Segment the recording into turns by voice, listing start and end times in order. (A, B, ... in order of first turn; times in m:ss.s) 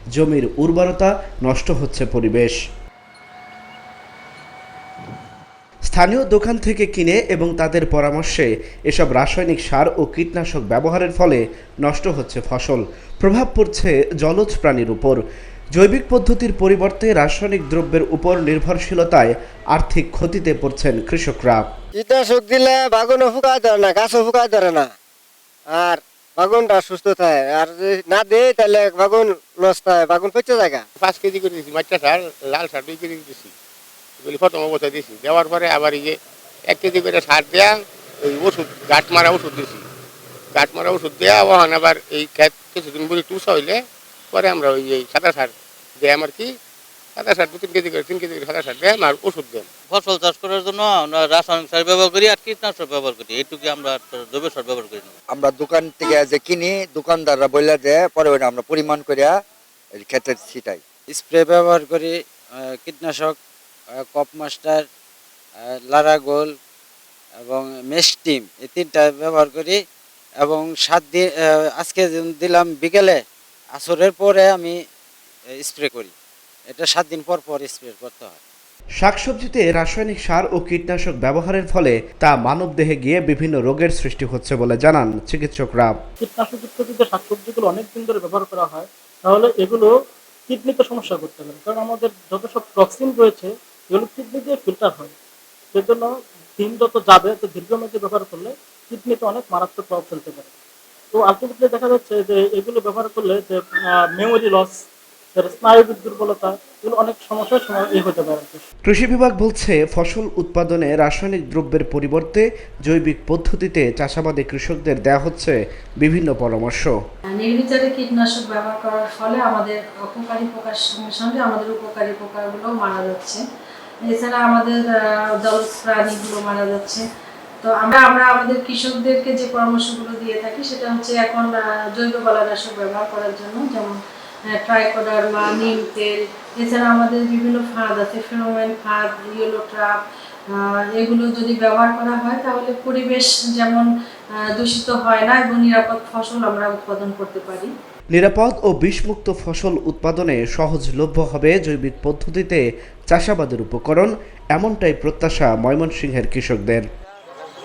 0:00.1-0:02.6 A
0:05.9-0:15.2 A
0:15.8-0:21.6 A
0:22.0-0:24.9 B
0:25.7-0:30.8 B
0:31.0-0:33.5 C
0:34.2-0:36.1 C
0:36.7-0:37.6 C
0:38.3-0:39.8 C
0:40.6-0:43.7 C
0:44.4-0:45.5 C
0:46.1-0:46.4 C
0:47.2-0:49.6 C
0:49.9-0:55.1 D
0:55.3-0:59.3 E
1:00.0-1:00.8 E
1:01.1-1:03.4 F
1:04.0-1:04.8 F
1:05.6-1:06.5 F
1:07.4-1:09.8 F
1:10.4-1:13.2 F
1:13.7-1:14.8 F
1:15.6-1:16.1 F
1:16.7-1:18.4 F
1:19.0-1:25.9 A
1:26.2-1:29.9 G
1:30.5-1:35.1 G
1:35.7-1:40.5 G
1:41.1-1:48.6 G
1:48.8-1:57.0 A
1:57.3-2:03.4 H
2:04.0-2:07.0 H
2:07.6-2:14.0 H
2:14.6-2:23.9 H
2:24.6-2:27.7 H
2:28.1-2:36.8 A